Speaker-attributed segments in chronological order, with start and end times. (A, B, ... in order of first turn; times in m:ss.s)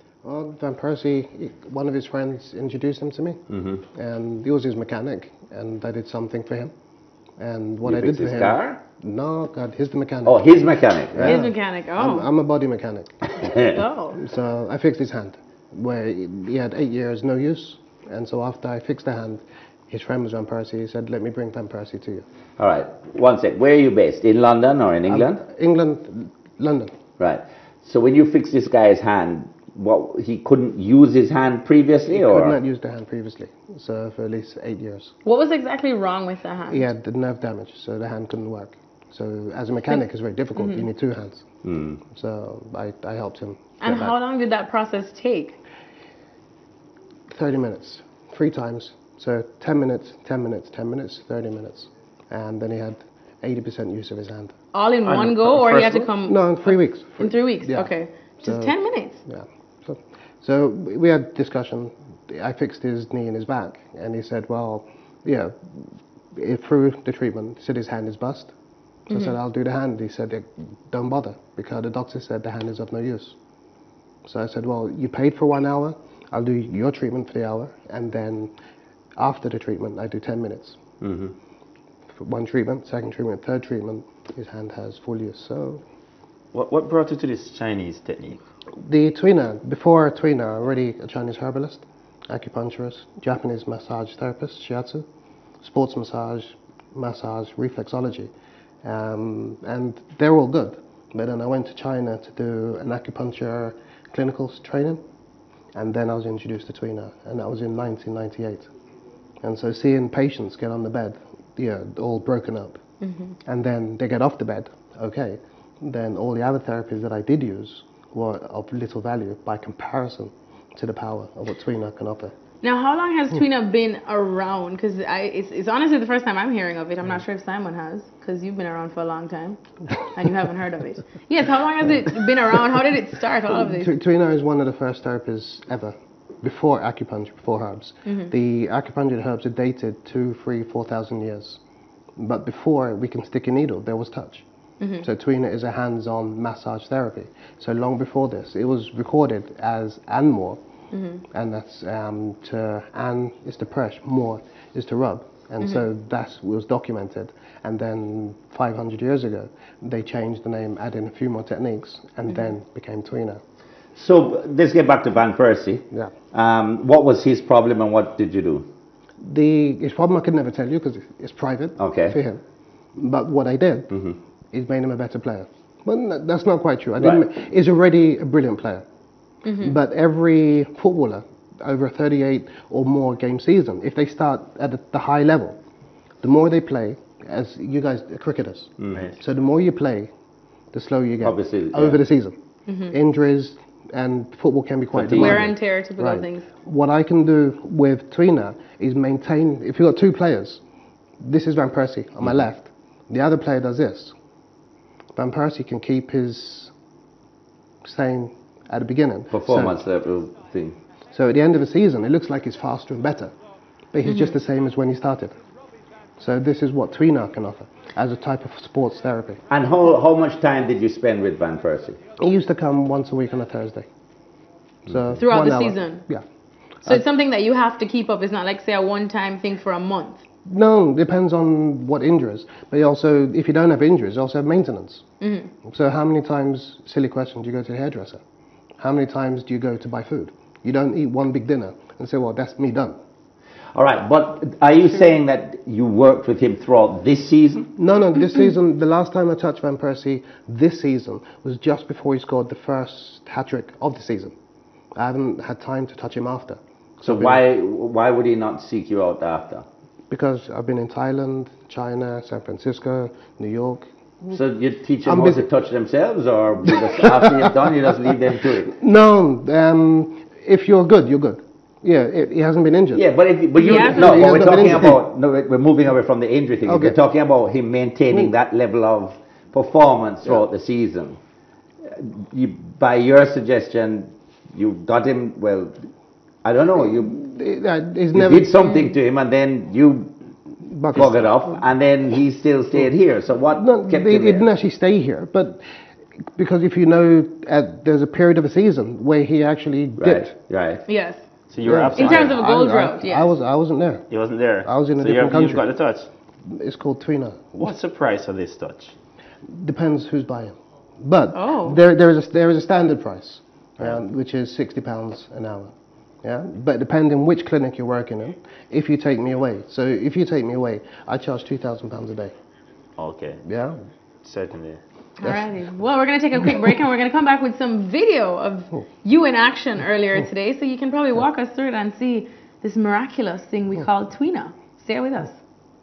0:00.2-0:06.7 A
0:03.5-0:03.8 B
0:07.4-0:10.5 A
0:07.8-0:08.8 B
0:10.2-0:11.4 B
0:11.1-0:13.3 A
0:11.2-0:12.3 C
0:13.4-0:13.8 B
0:13.5-0:14.2 C
0:14.2-0:22.2 A
0:22.6-0:25.4 B
0:25.1-0:26.9 A
0:27.2-0:32.6 B
0:32.1-0:35.1 A
0:35.2-0:36.9 C
0:36.7-0:41.4 A
0:41.6-0:42.0 B
0:42.1-0:44.1 A
0:43.8-0:45.6 C
0:47.3-0:54.6 A
0:54.7-0:59.2 C
0:55.0-0:56.1 D
0:56.2-0:57.9 A
0:58.4-0:58.7 A
0:59.2-1:08.5 A
1:09.1-1:13.4 A
1:14.2-1:18.5 A
1:19.2-1:20.8 A
1:21.0-1:21.3 B
1:22.1-1:25.8 A
1:26.5-1:28.4 D
1:28.8-1:35.0 A
1:35.6-1:38.3 A
1:38.8-1:45.0 A
1:45.7-1:48.7 A
1:49.4-1:52.8 A
1:53.0-1:53.3 C
1:53.4-2:02.3 A
2:02.6-2:13.9 C
2:13.5-2:21.6 A
2:18.0-2:18.3 C
2:22.2-2:24.4 A
2:24.8-2:25.0 C
2:25.0-2:30.6 A
2:30.9-2:31.2 C
2:31.3-2:43.4 A
2:43.9-2:48.7 B
2:49.2-2:52.4 A
2:51.8-2:52.2 B
2:53.0-2:54.0 A
2:53.9-2:54.2 B
2:54.5-2:58.8 A
2:59.4-2:59.7 C
2:59.6-3:05.6 A
3:06.2-3:10.1 A
3:08.8-3:09.1 B
3:10.7-3:12.4 A
3:11.2-3:12.0 B
3:12.7-3:12.9 C
3:12.9-3:20.6 A
3:14.9-3:15.5 B
3:15.1-3:16.5 C
3:21.2-3:24.1 A
3:25.1-3:26.7 A
3:27.8-3:29.8 A
3:29.3-3:30.8 B
3:31.1-3:33.3 A
3:33.9-3:35.4 A
3:34.0-3:34.3 C
3:36.2-3:39.5 A
3:39.5-3:42.0 B
3:42.2-3:43.8 A
3:44.9-3:46.2 A
3:45.2-3:46.0 C
3:46.8-3:50.2 C
3:50.4-3:55.0 A
3:55.2-3:55.5 C
3:55.6-3:58.2 A
3:58.8-4:03.0 A
4:03.7-4:07.7 B
4:07.8-4:14.3 A
4:15.0-4:17.4 A
4:17.0-4:19.6 B
4:20.1-4:24.4 A
4:24.3-4:28.7 B
4:25.0-4:25.5 A
4:26.6-4:33.0 A
4:32.9-4:41.2 B
4:33.6-4:34.4 C
4:33.6-4:35.0 A
4:36.6-4:37.0 A
4:41.8-4:45.8 B
4:46.4-4:47.2 B
4:46.8-4:48.7 A
4:48.1-4:50.1 B
4:50.6-4:51.5 A
4:50.9-4:54.4 B
4:53.5-4:55.6 A
4:56.3-5:00.3 A
5:00.0-5:00.8 B
5:00.9-5:01.2 C
5:01.5-5:02.4 D
5:01.6-5:04.0 A
5:01.9-5:03.3 C
5:04.1-5:06.1 D
5:04.6-5:05.7 A
5:06.4-5:07.6 A
5:07.6-5:08.9 D
5:09.5-5:22.3 A
5:11.3-5:11.8 C
5:23.0-5:23.4 D
5:23.4-5:23.8 A
5:24.2-5:24.8 D
5:25.2-5:35.4 C